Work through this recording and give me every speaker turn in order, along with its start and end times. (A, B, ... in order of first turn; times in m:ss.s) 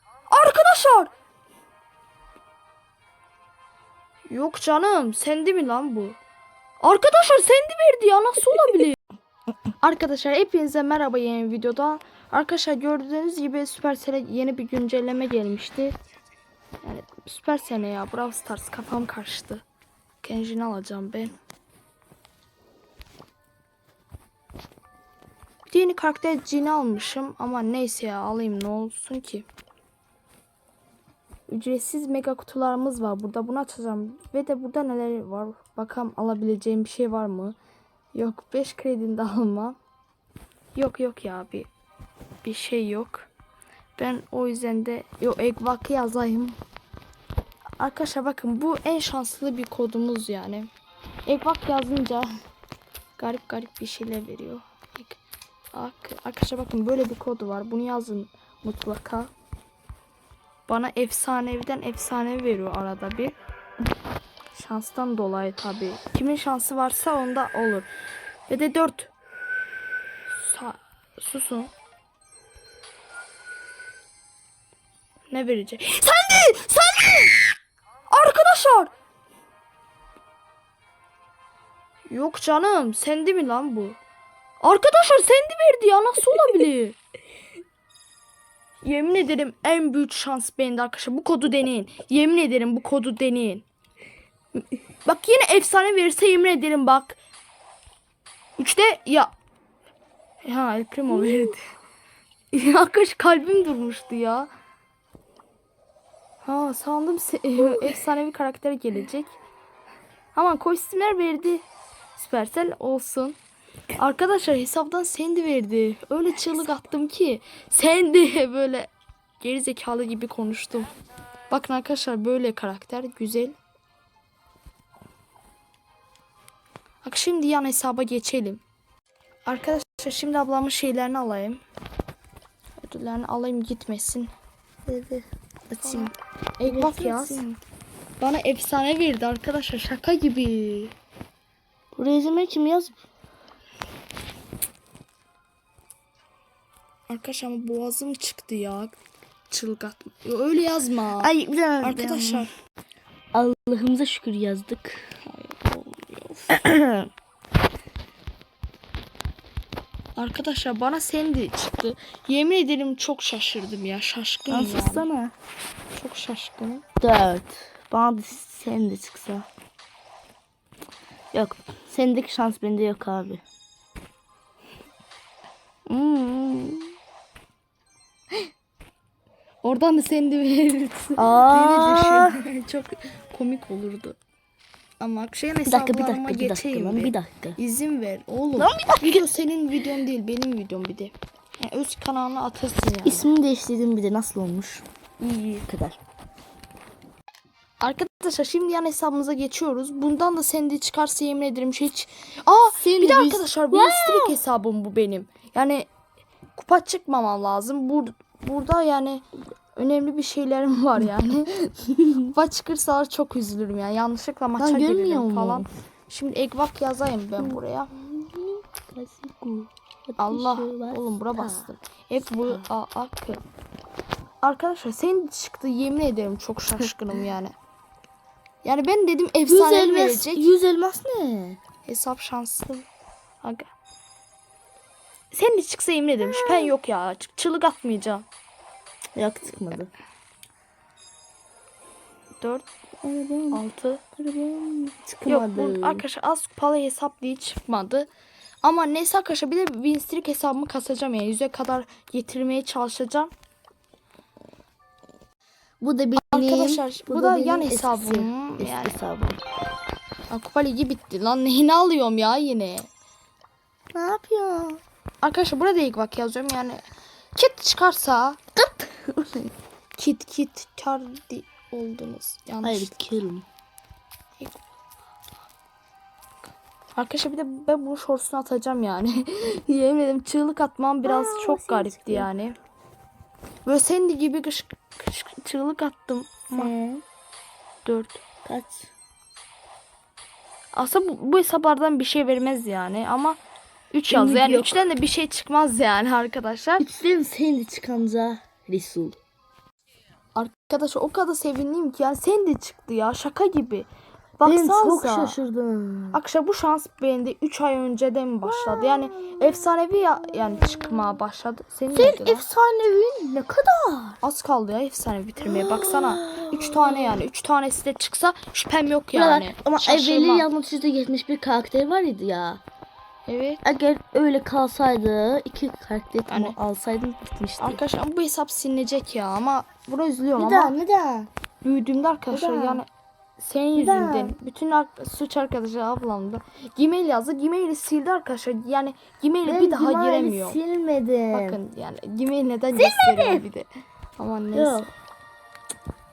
0:00.3-0:01.1 A
0:04.3-0:06.2 A
0:06.8-0:09.0 A
0:09.8-0:16.0 A
0:16.8-0:19.6 A
0:20.2-0:21.3 A
0:25.7-0:29.5 A
0:31.5-0:37.6 A
0:38.1-0:39.8 A
0:40.8-0:41.7 A
0:42.4-0:43.3 A
0:44.0-0:46.6 A
0:47.8-0:50.7 A
0:51.3-0:52.3 A
0:53.2-0:55.2 A
0:55.7-0:59.3 A
1:00.7-1:03.4 A
1:04.5-1:07.9 A
1:08.5-1:09.1 A
1:10.3-1:11.7 A
1:15.3-1:17.5 A
1:18.1-1:18.9 A
1:22.1-1:24.0 A
1:24.6-1:27.0 A
1:28.8-1:33.6 A
1:35.0-1:37.2 A
1:38.6-1:39.3 A
1:40.4-1:41.6 A
1:42.5-1:44.5 A
1:46.4-1:49.4 A
1:47.6-1:47.9 B
1:50.3-1:51.6 A
1:52.2-1:53.4 A
1:54.0-2:00.9 A
2:01.5-2:03.6 A
2:07.0-2:08.6 A
2:09.5-2:11.6 A
2:12.8-2:14.3 A
2:14.9-2:16.1 B
2:15.8-2:17.4 A
2:16.6-2:17.6 B
2:18.2-2:21.0 A
2:22.0-2:23.0 B
2:27.1-2:29.0 A
2:29.5-2:32.5 A
2:31.2-2:32.5 B
2:33.3-2:35.1 B
2:35.2-2:36.6 A
2:36.5-2:37.1 B
2:40.2-2:45.1 A
2:44.5-2:45.3 B
2:45.9-2:46.8 A
2:47.0-2:49.5 B
2:51.3-2:53.4 B
2:55.9-2:56.9 B
2:59.6-3:04.2 A
3:01.2-3:02.4 B
3:05.0-3:13.3 A
3:05.7-3:07.6 B
3:08.6-3:09.2 B
3:13.0-3:14.8 B
3:15.2-3:15.7 A
3:15.7-3:16.0 B
3:17.8-3:25.9 A
3:22.8-3:24.4 B
3:26.6-3:37.9 A
3:34.6-3:35.7 B
3:37.4-3:41.7 B
3:40.2-3:43.4 A
3:44.4-3:47.5 A
3:48.6-3:50.5 A
3:49.5-3:51.6 B
3:51.8-3:52.9 A
3:53.4-3:53.7 A
3:55.3-3:58.2 A
3:59.2-3:59.9 B
4:02.4-4:02.7 A
4:03.0-4:03.6 B
4:03.5-4:04.1 A
4:04.2-4:06.0 B
4:05.3-4:08.1 A
4:08.6-4:13.3 A
4:15.8-4:19.4 B
4:16.2-4:19.0 A
4:20.3-4:22.9 A
4:23.9-4:24.8 B
4:25.2-4:26.8 A
4:27.4-4:28.4 A
4:28.6-4:29.5 B
4:30.0-4:32.9 A
4:32.6-4:33.5 B
4:37.0-4:42.6 A
4:41.0-4:42.3 B
4:43.6-4:46.7 A
4:46.5-4:47.0 B
4:47.8-4:48.2 A
4:48.4-4:48.9 B
4:50.8-4:53.4 A
4:53.9-4:56.8 A
4:54.1-4:54.8 B
4:56.8-4:59.2 B
5:00.4-5:03.9 A
5:04.4-5:05.4 A
5:04.4-5:06.2 B
5:06.1-5:12.5 A
5:08.4-5:11.1 B
5:11.9-5:14.2 B
5:14.2-5:20.5 A
5:15.4-5:17.2 B
5:19.1-5:22.6 B
5:23.3-5:23.6 A
5:23.6-5:27.8 B
5:26.3-5:26.6 A
5:27.6-5:30.8 A
5:30.4-5:31.3 B
5:31.6-5:32.9 A
5:32.3-5:32.8 B
5:33.4-5:40.6 A
5:33.8-5:34.4 B
5:39.4-5:41.6 B
5:41.3-5:44.9 A
5:42.7-5:43.4 B
5:44.5-5:44.9 B